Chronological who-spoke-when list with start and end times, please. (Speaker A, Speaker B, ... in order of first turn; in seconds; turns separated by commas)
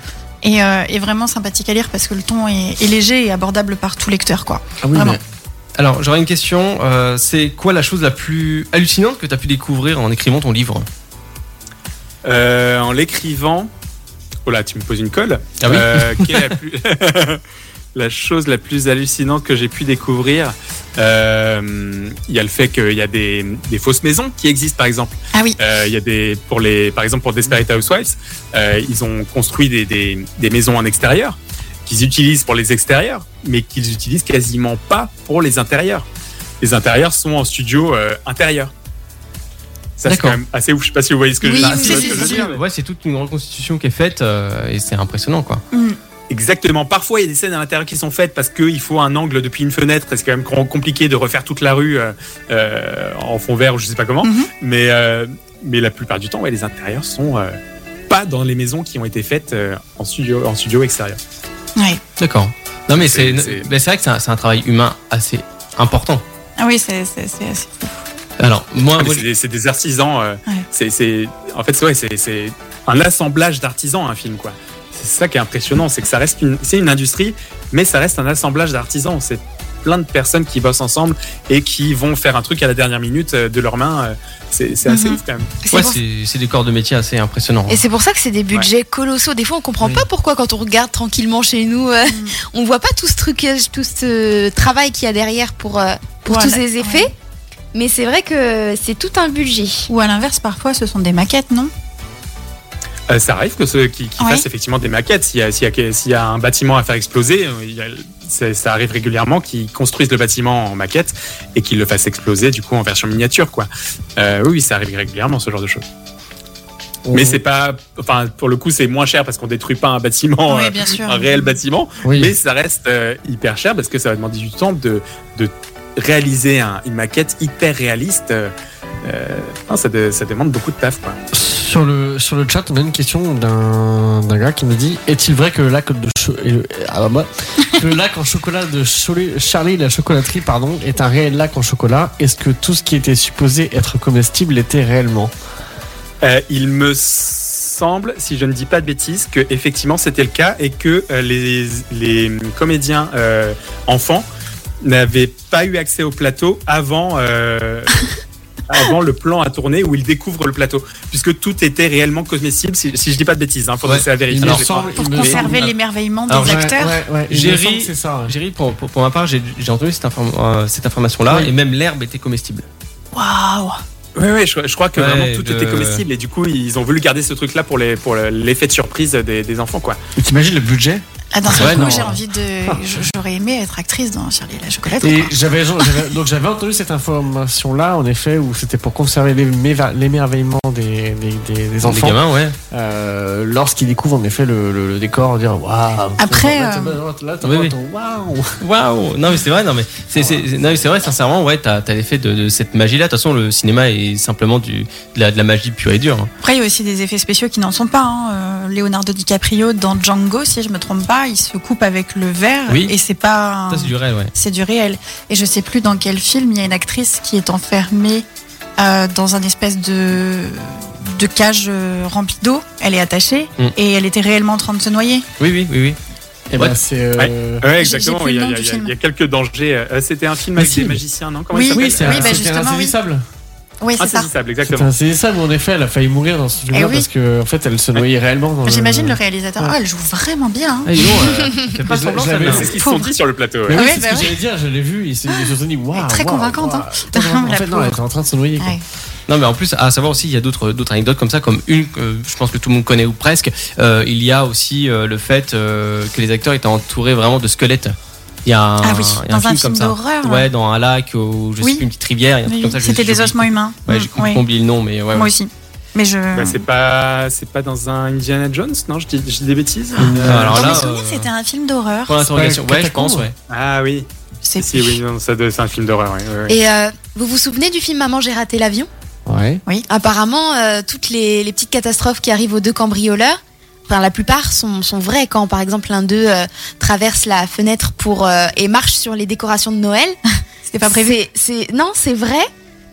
Speaker A: 0.4-5.2, Speaker B: 4.8-5.2, Speaker C: 5.8-10.9, Speaker D: 12.2-13.7, Speaker D: 14.4-17.4, Speaker C: 15.6-16.5, Speaker D: 17.9-36.0, Speaker A: 25.3-25.6, Speaker D: 36.6-38.7, Speaker D: 40.0-42.6, Speaker C: 40.0-40.4, Speaker A: 41.4-42.5, Speaker C: 41.6-45.6, Speaker D: 46.3-57.5, Speaker A: 54.2-54.5, Speaker D: 58.1-61.2, Speaker A: 61.8-62.0, Speaker C: 62.2-66.2, Speaker D: 63.0-63.6, Speaker A: 66.6-68.0, Speaker C: 68.4-69.2, Speaker D: 69.0-85.5, Speaker E: 84.9-86.0, Speaker C: 85.7-87.8, Speaker E: 87.7-97.1, Speaker B: 89.8-90.1, Speaker A: 92.1-92.4, Speaker A: 96.3-97.1, Speaker E: 97.7-99.9, Speaker A: 99.9-101.7, Speaker D: 103.1-115.8, Speaker B: 117.0-117.4, Speaker D: 117.1-128.5, Speaker A: 120.5-121.5, Speaker B: 122.0-122.3, Speaker D: 129.0-131.2, Speaker B: 131.3-145.3, Speaker D: 146.2-154.2, Speaker D: 154.8-158.1, Speaker D: 158.7-165.5, Speaker C: 163.8-164.7, Speaker B: 164.3-165.7, Speaker A: 164.9-167.0, Speaker C: 165.4-165.7, Speaker C: 166.3-166.7, Speaker B: 166.4-168.3, Speaker C: 167.3-172.7, Speaker A: 173.1-173.7, Speaker D: 174.2-180.0, Speaker C: 174.9-176.0, Speaker B: 180.2-182.8, Speaker A: 181.3-185.3, Speaker C: 181.5-182.2, Speaker B: 185.0-192.2, Speaker C: 191.8-192.6, Speaker B: 192.7-198.6, Speaker A: 196.2-197.0, Speaker C: 197.4-197.7, Speaker C: 198.6-206.3, Speaker B: 200.1-200.5, Speaker A: 206.4-218.2, Speaker C: 212.7-212.9, Speaker C: 213.7-214.3, Speaker A: 218.8-225.2, Speaker C: 225.4-226.0, Speaker B: 226.5-227.6, Speaker D: 226.6-232.4, Speaker A: 227.8-228.9, Speaker B: 230.6-230.9, Speaker A: 230.6-230.9, Speaker A: 231.5-233.0, Speaker B: 231.7-233.2, Speaker A: 233.8-234.3, Speaker D: 234.0-234.9, Speaker B: 234.6-239.8, Speaker A: 236.7-237.1, Speaker A: 238.6-240.9, Speaker C: 240.8-242.7, Speaker B: 241.9-242.7, Speaker D: 242.4-243.9, Speaker A: 242.7-243.1, Speaker B: 243.7-248.8, Speaker A: 243.7-244.3, Speaker A: 245.9-248.0, Speaker A: 248.6-248.8, Speaker C: 249.3-265.3, Speaker A: 258.8-260.5, Speaker A: 262.4-264.4, Speaker A: 265.1-266.6, Speaker D: 266.3-270.5, Speaker B: 270.0-270.8, Speaker C: 270.1-271.3, Speaker A: 270.5-272.2, Speaker C: 272.1-273.3, Speaker B: 272.3-273.3, Speaker D: 273.5-274.1, Speaker A: 274.4-275.0, Speaker D: 274.6-276.6, Speaker E: 276.5-278.9, Speaker B: 279.2-279.6, Speaker E: 279.9-290.2, Speaker A: 290.6-291.2, Speaker E: 290.8-292.5